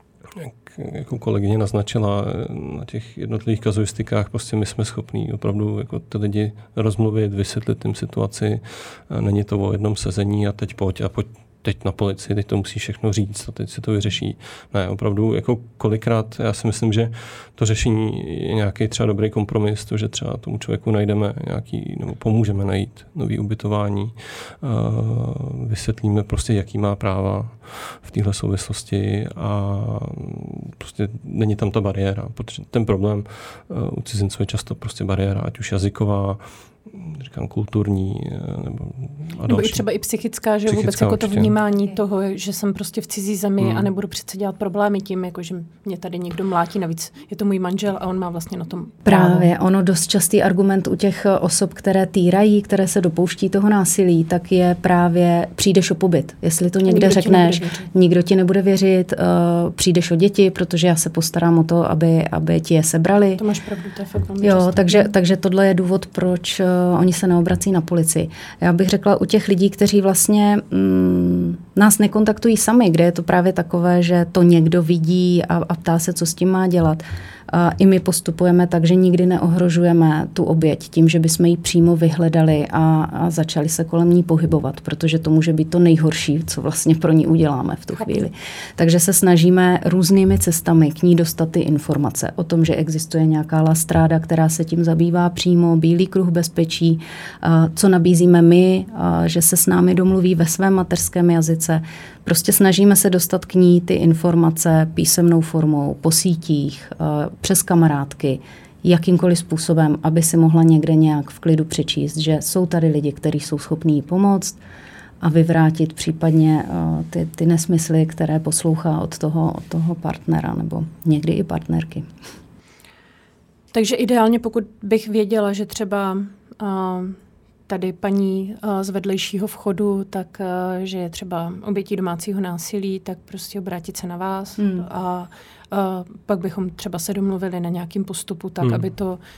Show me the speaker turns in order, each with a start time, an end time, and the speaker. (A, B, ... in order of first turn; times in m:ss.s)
0:00.3-0:39.8 A
0:39.5-0:49.5 B
0:40.6-0:41.5 A
0:43.6-0:43.9 A
0:49.0-1:03.4 C
0:56.8-0:57.9 B
1:03.4-1:05.1 B
1:04.4-1:54.6 C
1:55.2-2:02.0 C
2:03.7-2:19.2 B
2:14.6-2:14.8 C